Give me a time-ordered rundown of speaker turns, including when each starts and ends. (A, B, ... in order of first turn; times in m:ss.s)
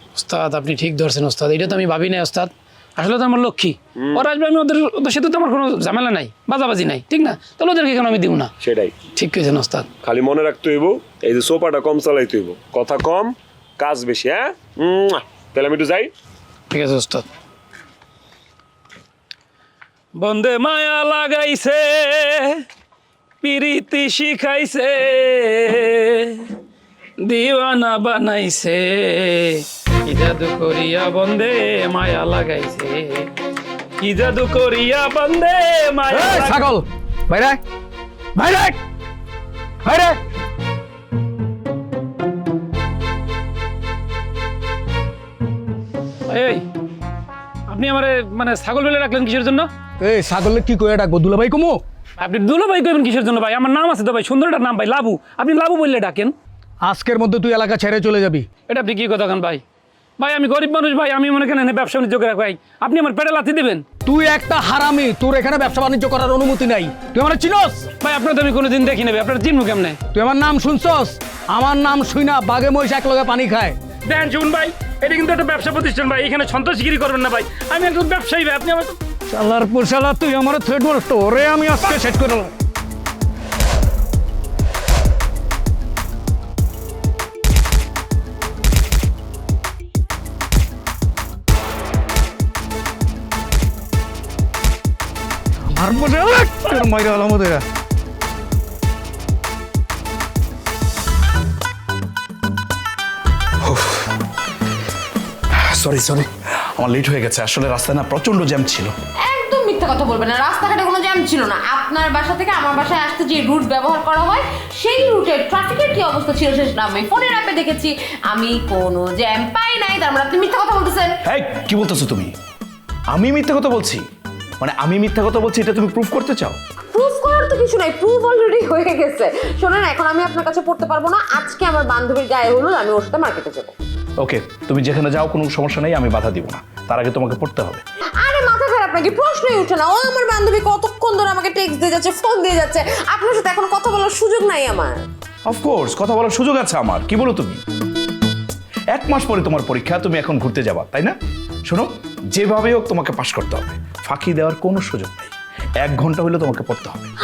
0:00.2-0:08.5 A
0:04.0-0:04.3 B
0:08.6-0:09.0 B
0:09.2-0:09.9 A
0:10.0-0:16.1 B
0:16.7-0:17.3 A
0:20.2-0:22.6 A
0:23.4-0:26.4 A
0:27.2-0:33.3 A
0:34.0-0:36.7 A
0:36.1-0:37.6 C
0:38.4-0:38.8 C
0:39.8-0:40.2 C
0:46.3-0:46.6 A
0:47.7-0:49.7 A
0:50.0-0:51.8 C
0:52.2-0:56.4 A
0:56.8-0:58.5 C
0:58.7-0:59.6 A
1:00.2-1:03.8 A
1:04.1-1:07.9 C
1:08.0-1:10.0 A
1:10.1-1:13.8 C
1:14.0-1:19.0 A
1:19.3-1:22.5 C
1:35.8-1:37.6 C
1:43.6-1:44.1 D
1:45.7-1:48.9 D
1:49.3-2:01.2 E
2:01.3-2:02.3 D
2:03.1-2:04.0 D
2:04.6-2:06.6 D
2:06.9-2:13.7 E
2:14.2-2:17.8 D
2:18.2-2:25.0 E
2:25.5-2:27.6 D
2:28.9-2:37.1 D